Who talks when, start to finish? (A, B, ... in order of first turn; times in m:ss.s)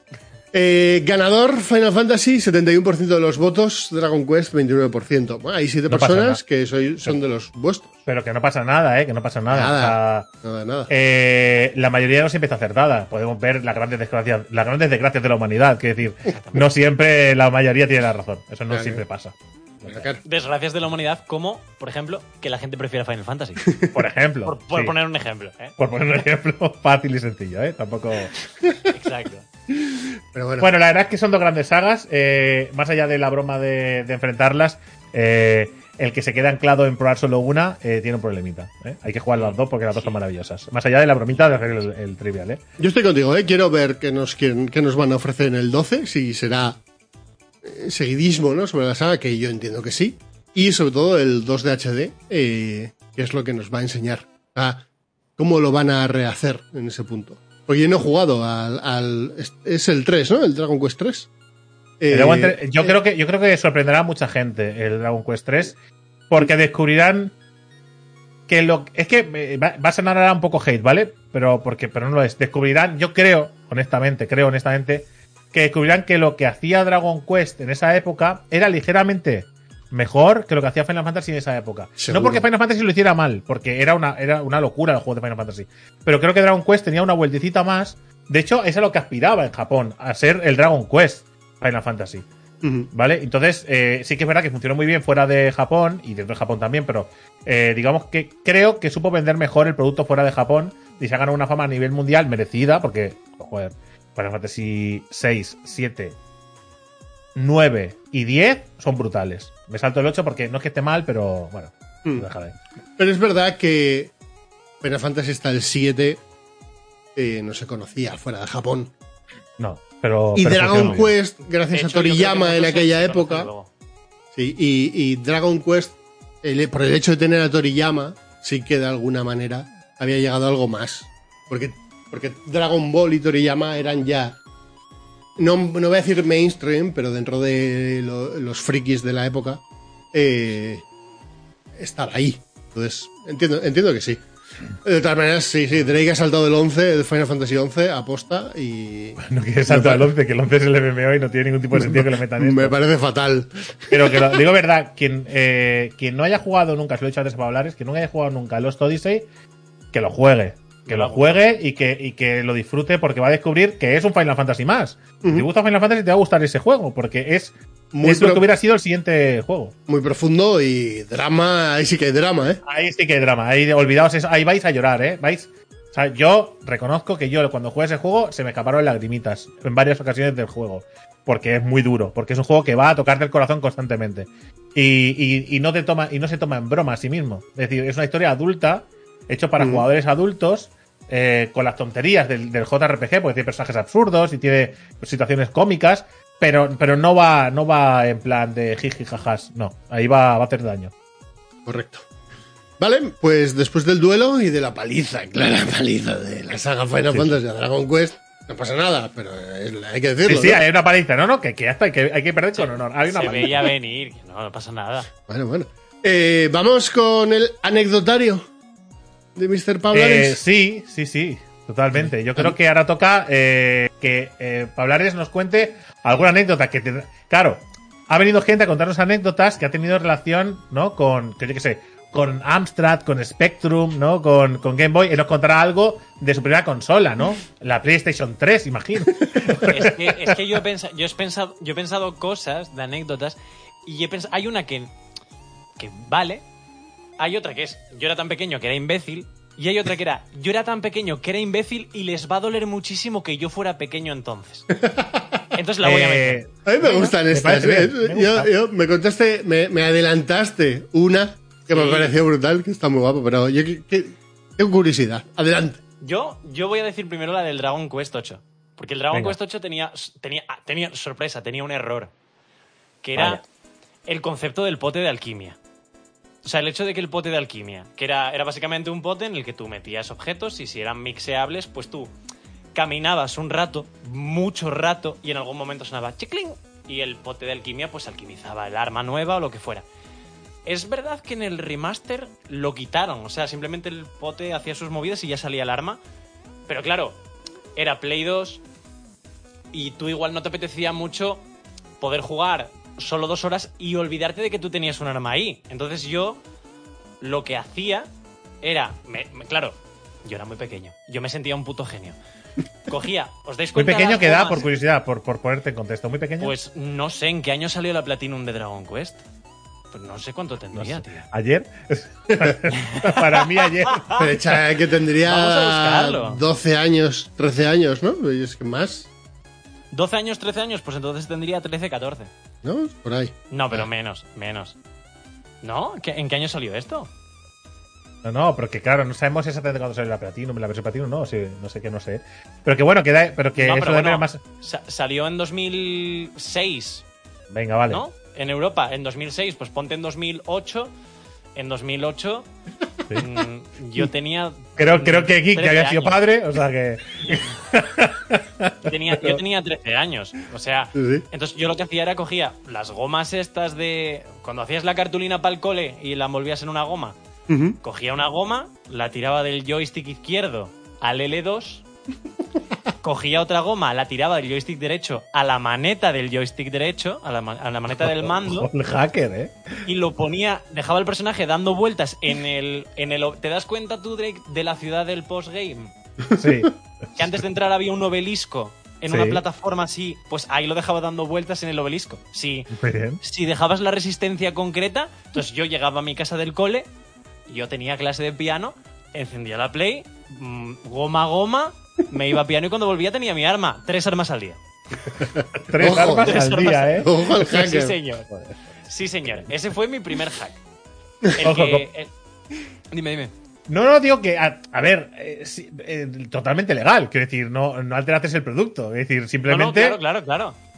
0:00.5-0:08.0 A
0:05.9-0:06.4 B
0:08.0-0:10.3 B
0:09.5-0:10.9 A
0:10.9-0:20.1 B
0:16.3-0:16.6 C
0:18.7-0:19.0 A
0:19.8-0:20.2 A
0:20.2-0:23.7 C
0:23.6-0:24.0 A
0:23.9-0:25.0 B
0:24.4-0:25.8 C
0:25.8-0:28.3 B
0:28.9-0:29.5 C
0:30.3-0:30.7 A
0:30.6-0:42.6 B
0:39.3-0:40.1 C
0:42.8-0:46.8 A
0:47.6-0:54.8 A
0:55.4-1:01.3 A
1:02.0-1:03.0 A
1:02.1-1:05.8 B
1:06.3-1:07.3 B
1:08.5-1:32.2 B
1:22.0-1:22.4 A
1:32.6-1:32.9 A
1:32.9-1:46.2 B
1:47.4-1:52.5 B
1:53.0-1:54.1 A
1:54.8-1:56.2 A
1:57.1-1:58.9 A
1:59.6-2:01.1 B
2:00.3-2:03.5 A
2:01.7-2:03.7 C
2:04.3-2:14.4 A
2:15.4-2:19.6 A
2:20.1-2:20.8 A
2:21.8-2:24.2 A
2:24.8-2:30.1 A
2:29.2-2:32.7 B
2:31.7-2:34.4 A
2:33.9-2:39.2 B
2:39.9-2:47.5 B
2:40.8-2:41.4 C
2:47.9-2:48.5 A
2:48.0-2:49.7 B
2:49.9-2:52.6 A
2:52.6-3:20.9 B
3:09.6-3:09.8 A
3:21.6-3:22.0 A
3:22.8-3:30.6 A
3:30.2-3:33.7 B
3:32.5-3:35.1 C
3:35.3-3:38.5 A
3:39.4-3:40.4 A
3:39.9-4:00.4 B
3:41.9-3:42.6 A
3:59.6-4:04.9 C
4:05.8-4:06.4 C
4:07.2-4:14.7 C
4:14.8-4:15.4 A
4:15.5-4:16.4 C
4:15.8-4:18.5 B
4:16.6-4:25.8 A
4:21.7-4:22.1 C
4:26.0-4:32.1 C
4:33.0-4:33.4 C
4:34.1-4:35.6 C
4:36.4-4:42.1 C
4:42.7-4:49.8 C
4:50.6-4:56.0 C
4:56.7-4:57.2 C
4:57.8-4:58.6 C
4:59.7-5:01.4 C
5:02.0-5:06.4 C
5:07.2-5:08.1 C
5:08.6-5:12.2 C
5:12.9-5:14.6 C
5:13.8-5:16.5 B
5:16.4-5:19.2 C
5:19.9-5:21.2 C
5:20.7-5:24.3 B
5:22.8-5:24.2 C
5:24.1-5:29.1 A
5:25.2-5:26.4 C
5:29.9-5:32.3 C
5:32.6-5:33.8 A
5:33.5-5:34.8 C
5:35.6-5:37.1 C
5:38.2-5:44.4 B
5:43.6-5:47.0 C
5:47.5-5:48.0 B
5:47.9-5:50.9 C
5:51.6-5:52.5 C
5:53.1-5:56.2 C
5:54.8-5:59.4 B
5:58.8-6:07.2 C
6:00.9-6:01.2 A
6:07.5-6:07.8 A
6:07.8-6:11.8 C
6:13.0-6:18.7 C
6:18.0-6:19.5 B
6:19.8-6:25.9 C
6:26.3-6:26.7 A
6:26.3-6:26.8 B
6:27.2-6:32.7 C
6:29.1-6:29.4 B
6:32.7-6:33.2 B
6:33.2-6:36.9 C
6:37.5-6:44.6 C
6:45.2-6:48.0 A
6:45.7-6:47.1 B
6:46.2-6:48.3 C
6:48.9-6:50.6 C
6:51.4-6:52.1 C
6:51.4-6:51.8 B
6:52.9-6:53.3 C
6:53.7-7:00.0 B
6:59.5-7:00.6 C